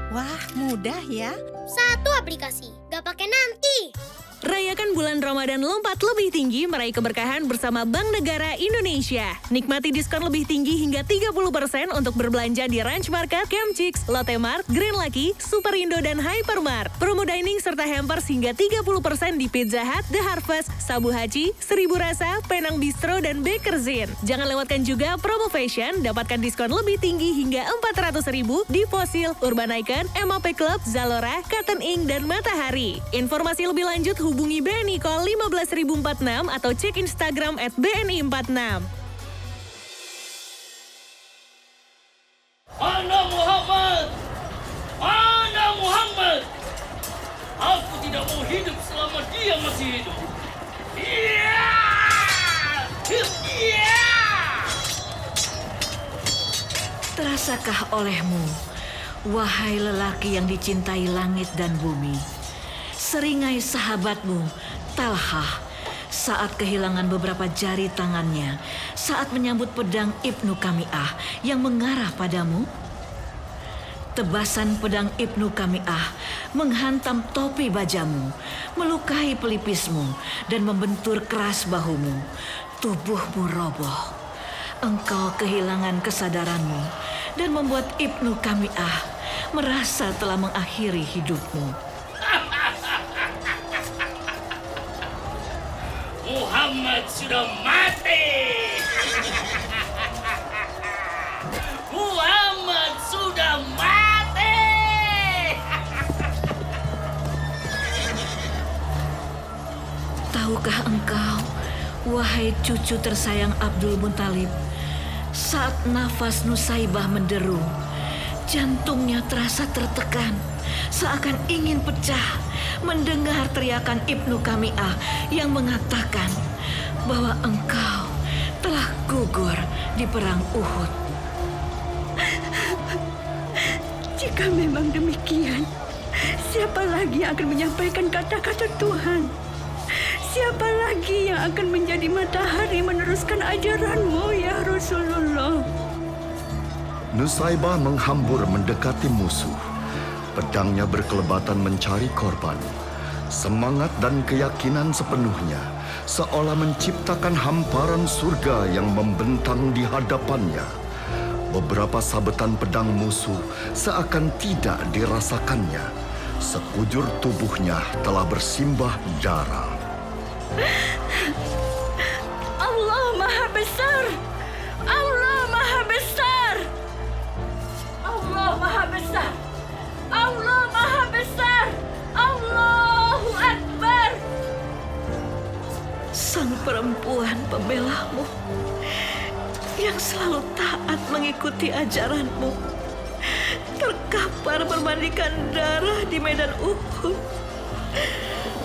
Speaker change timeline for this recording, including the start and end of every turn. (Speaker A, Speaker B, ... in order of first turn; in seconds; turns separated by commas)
Speaker A: 0.1-1.3, Speaker B: 1.7-3.9, Speaker C: 4.5-38.9, Speaker D: 42.8-44.1, Speaker D: 45.0-46.5, Speaker D: 47.6-50.2, Speaker D: 51.0-54.7, Speaker E: 57.1-58.5, Speaker E: 59.3-62.2, Speaker E: 63.0-65.6, Speaker E: 66.1-72.7, Speaker E: 74.2-82.2, Speaker E: 82.8-84.1, Speaker E: 84.8-91.8, Speaker D: 92.2-93.2, Speaker D: 96.2-99.3, Speaker D: 101.9-105.6, Speaker E: 110.3-111.5, Speaker E: 112.0-114.5, Speaker E: 115.3-117.7, Speaker E: 118.5-120.4, Speaker E: 120.9-126.4, Speaker E: 127.0-130.9, Speaker A: 132.3-133.0, Speaker A: 134.2-135.7, Speaker A: 136.4-139.3, Speaker A: 140.3-145.6, Speaker F: 147.1-149.6, Speaker F: 150.3-152.7, Speaker F: 153.3-160.7, Speaker F: 161.5-165.9, Speaker F: 166.4-169.8, Speaker A: 170.6-171.3, Speaker A: 172.6-174.2, Speaker A: 174.9-176.7, Speaker A: 178.0-179.4, Speaker A: 180.1-184.2, Speaker E: 186.2-188.3, Speaker E: 189.8-192.6, Speaker E: 193.3-197.2